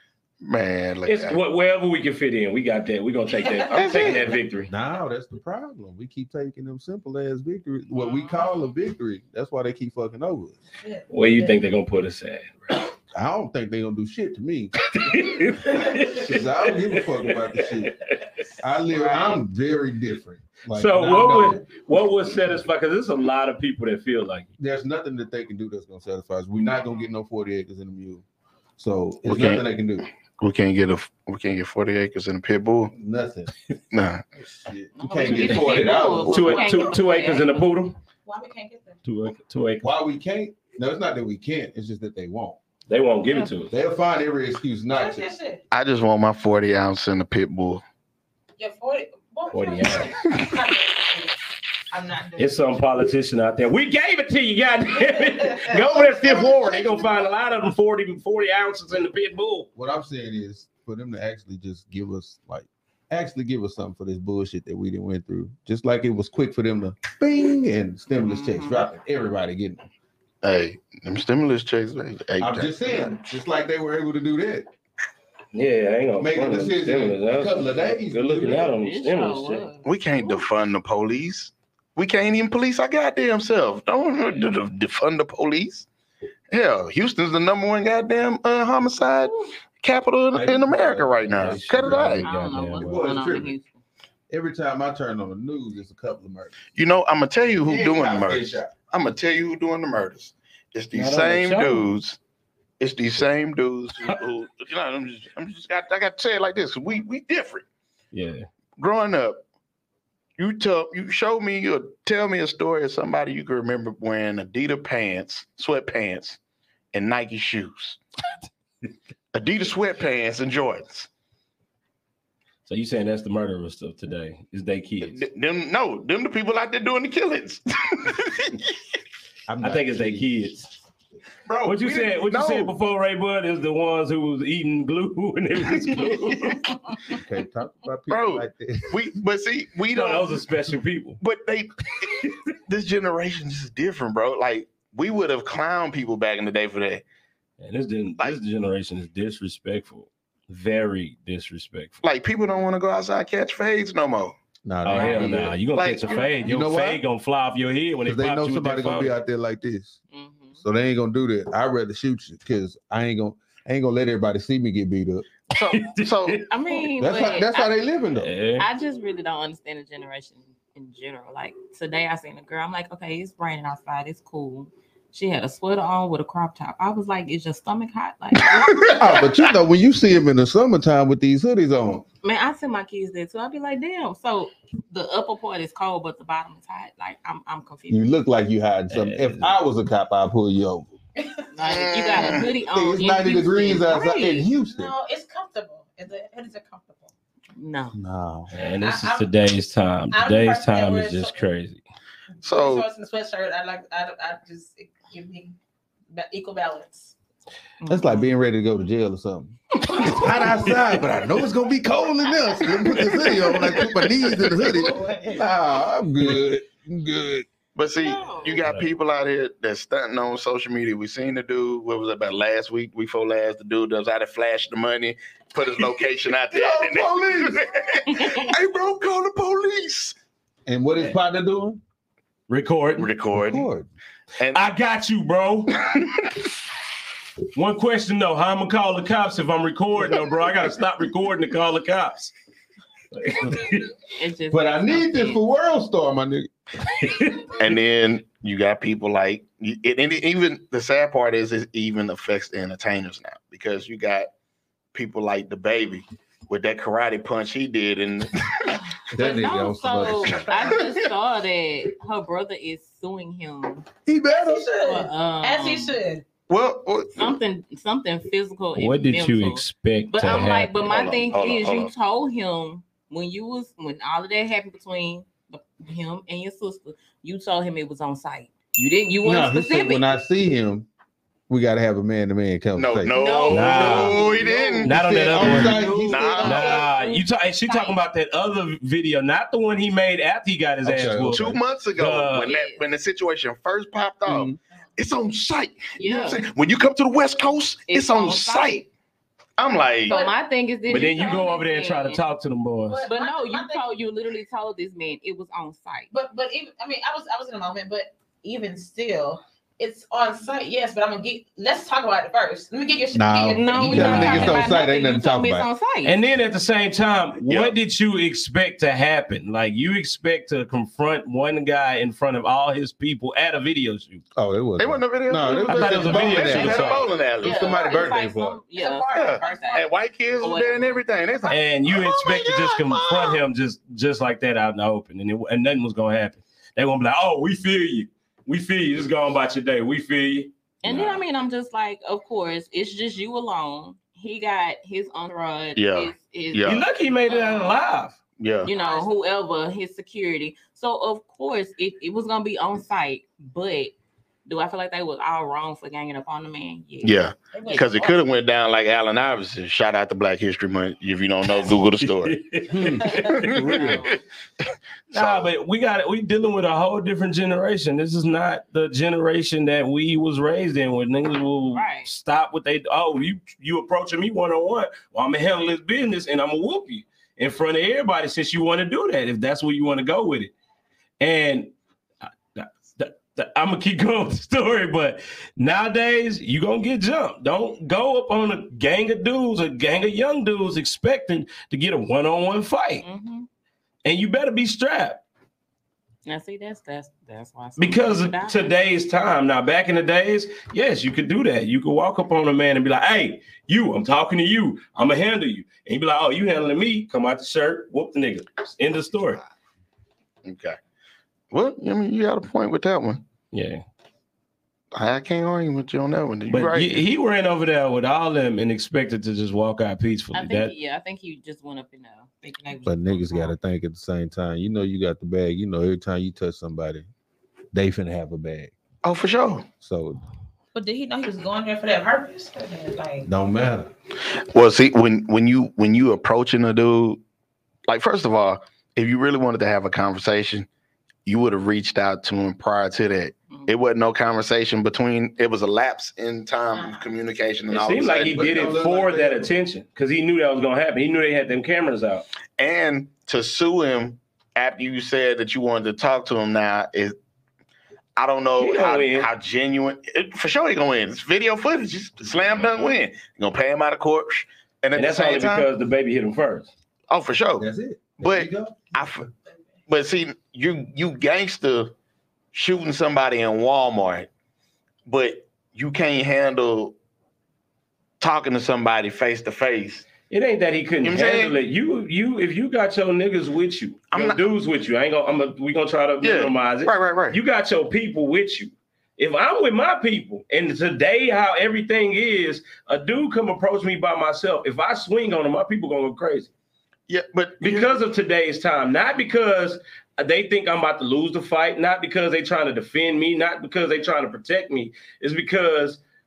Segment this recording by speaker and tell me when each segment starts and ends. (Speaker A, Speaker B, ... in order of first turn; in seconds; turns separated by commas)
Speaker A: 0.4-1.4, Speaker B: 1.1-4.7, Speaker A: 3.7-4.4, Speaker C: 4.7-10.6, Speaker D: 8.0-8.5, Speaker E: 10.8-11.6, Speaker B: 11.1-12.8, Speaker C: 13.1-14.9, Speaker B: 14.9-18.2, Speaker C: 16.0-18.0, Speaker C: 18.6-21.7, Speaker B: 20.7-24.5, Speaker C: 24.6-28.2, Speaker C: 28.8-30.1, Speaker A: 29.2-29.6, Speaker A: 30.4-32.9, Speaker C: 32.9-33.5, Speaker A: 33.9-34.2, Speaker C: 34.6-36.7, Speaker D: 35.0-37.6, Speaker B: 35.2-38.0, Speaker E: 36.5-37.3, Speaker E: 38.2-39.0, Speaker B: 39.0-39.9, Speaker C: 39.8-42.6, Speaker B: 42.9-43.7, Speaker C: 43.7-45.3, Speaker E: 44.9-45.6, Speaker A: 45.7-47.8, Speaker E: 48.6-51.4, Speaker B: 49.5-50.2, Speaker E: 51.9-52.6, Speaker B: 52.4-59.7, Speaker C: 56.0-56.8, Speaker C: 59.8-69.8, Speaker D: 68.2-68.9, Speaker A: 70.4-73.2, Speaker C: 72.4-74.7, Speaker B: 75.5-79.7, Speaker C: 76.2-78.8, Speaker D: 78.6-80.4, Speaker A: 79.8-85.9, Speaker A: 86.5-92.3, Speaker C: 90.3-93.5, Speaker B: 91.3-93.2, Speaker D: 92.2-93.8, Speaker C: 94.3-96.6, Speaker A: 96.8-102.2, Speaker C: 97.6-98.7, Speaker B: 100.9-101.9, Speaker A: 102.8-107.7, Speaker B: 108.1-108.5, Speaker A: 108.8-109.4, Speaker A: 110.4-116.4, Speaker A: 116.9-118.0, Speaker A: 119.3-121.1, Speaker B: 122.7-125.2, Speaker A: 125.0-128.7, Speaker C: 129.5-130.3, Speaker B: 129.6-130.7, Speaker A: 131.5-132.7, Speaker B: 131.7-136.7, Speaker C: 137.1-139.2, Speaker A: 138.1-140.4, Speaker B: 139.9-141.2, Speaker A: 141.2-147.0, Speaker B: 147.6-152.0, Speaker A: 152.0-154.4, Speaker C: 154.7-155.6, Speaker B: 154.8-159.2, Speaker D: 154.9-155.5, Speaker A: 155.7-156.3, Speaker C: 156.4-157.0, Speaker C: 158.1-160.0, Speaker D: 160.1-160.6, Speaker C: 160.6-165.2, Speaker A: 165.5-166.4, Speaker B: 165.5-166.8, Speaker D: 166.5-167.8, Speaker C: 167.0-168.3, Speaker B: 168.2-168.7, Speaker D: 168.6-179.2, Speaker A: 178.6-179.0, Speaker C: 178.9-182.0, Speaker D: 182.2-188.0, Speaker C: 187.9-190.9, Speaker B: 188.9-189.6, Speaker E: 191.2-191.5, Speaker D: 191.6-194.3, Speaker A: 191.6-192.5, Speaker C: 192.6-194.9, Speaker E: 193.9-197.1, Speaker D: 197.6-198.0, Speaker C: 197.9-198.5, Speaker B: 198.5-201.8, Speaker E: 198.8-199.3, Speaker E: 200.1-201.4, Speaker E: 202.4-205.6, Speaker A: 202.4-202.9, Speaker E: 206.1-207.2, Speaker D: 207.8-208.3, Speaker C: 207.9-217.5, Speaker B: 209.9-211.0, Speaker E: 214.7-215.5, Speaker A: 217.8-230.2, Speaker D: 218.0-218.6, Speaker B: 218.6-218.9, Speaker C: 226.5-227.9, Speaker C: 230.7-231.8, Speaker B: 232.5-233.1, Speaker A: 233.0-233.7, Speaker C: 233.3-233.9, Speaker B: 234.5-235.8, Speaker A: 235.8-236.3, Speaker B: 237.5-242.3, Speaker B: 243.1-243.9, Speaker D: 244.2-245.4, Speaker C: 244.5-246.5, Speaker B: 246.8-247.8, Speaker A: 247.6-254.3, Speaker A: 254.9-258.8, Speaker C: 259.1-260.5, Speaker D: 259.1-263.9, Speaker E: 260.5-260.8, Speaker A: 260.6-261.0, Speaker C: 264.1-264.7, Speaker E: 264.3-266.2, Speaker D: 264.7-266.0, Speaker A: 266.5-267.4, Speaker D: 267.2-280.1, Speaker B: 268.8-270.8, Speaker A: 270.3-271.9, Speaker C: 279.2-280.9, Speaker C: 281.5-286.5, Speaker A: 282.8-285.5, Speaker D: 283.1-288.0, Speaker B: 283.5-284.2, Speaker B: 284.9-285.9, Speaker E: 286.0-286.6, Speaker A: 286.1-286.9, Speaker B: 286.4-292.5, Speaker C: 290.8-291.6, Speaker A: 291.3-298.9, Speaker D: 292.4-292.8, Speaker C: 294.2-294.6, Speaker D: 296.0-296.4, Speaker D: 297.9-298.8, Speaker A: 299.6-300.2, Speaker D: 300.1-302.2, Speaker E: 300.1-300.4, Speaker B: 300.9-303.1, Speaker E: 302.9-303.9, Speaker D: 303.1-306.1, Speaker E: 306.1-314.7, Speaker C: 313.1-315.7, Speaker D: 313.5-316.2, Speaker B: 316.0-324.2, Speaker A: 317.5-317.8, Speaker C: 324.4-328.6, Speaker A: 324.8-327.8, Speaker B: 325.7-327.1, Speaker D: 327.4-329.9, Speaker E: 327.6-328.2, Speaker E: 328.7-329.9, Speaker A: 329.1-333.4, Speaker D: 330.4-331.0, Speaker B: 331.5-341.2, Speaker D: 340.8-347.7, Speaker A: 345.8-346.8, Speaker B: 346.6-348.2, Speaker A: 348.4-348.7, Speaker D: 348.6-353.9, Speaker E: 348.7-349.1, Speaker D: 354.5-357.8, Speaker A: 357.0-362.4, Speaker E: 357.5-358.2, Speaker B: 362.0-363.7, Speaker C: 362.7-364.1, Speaker A: 363.2-364.1, Speaker D: 363.6-364.2, Speaker A: 365.1-365.5, Speaker B: 365.1-380.5, Speaker D: 371.7-372.1, Speaker B: 381.2-381.7, Speaker B: 382.6-393.1, Speaker D: 393.0-393.5, Speaker B: 394.0-395.2, Speaker D: 396.3-398.7, Speaker B: 397.8-409.4, Speaker A: 410.4-410.8, Speaker A: 411.5-413.2, Speaker B: 413.5-413.8, Speaker A: 414.9-417.0, Speaker B: 416.5-420.7, Speaker D: 420.3-423.5, Speaker C: 422.9-427.1, Speaker C: 427.7-428.7, Speaker A: 429.0-429.7, Speaker C: 429.8-430.2, Speaker E: 430.7-433.3, Speaker C: 433.2-433.9, Speaker A: 434.3-437.2, Speaker A: 437.9-440.7, Speaker A: 441.3-448.4, Speaker E: 446.7-447.1, Speaker B: 447.7-452.3, Speaker C: 448.3-449.5, Speaker A: 452.6-457.2, Speaker A: 458.2-465.7, Speaker B: 458.6-459.3, Speaker B: 464.9-466.7, Speaker A: 467.1-467.7, Speaker C: 467.6-469.0, Speaker A: 468.2-469.3, Speaker A: 469.9-471.9, Speaker A: 472.5-474.3, Speaker A: 475.1-476.9, Speaker A: 478.2-480.1, Speaker B: 480.3-496.5, Speaker A: 481.0-481.5, Speaker A: 484.1-484.4, Speaker A: 486.2-487.4, Speaker A: 497.1-498.0, Speaker B: 497.6-506.0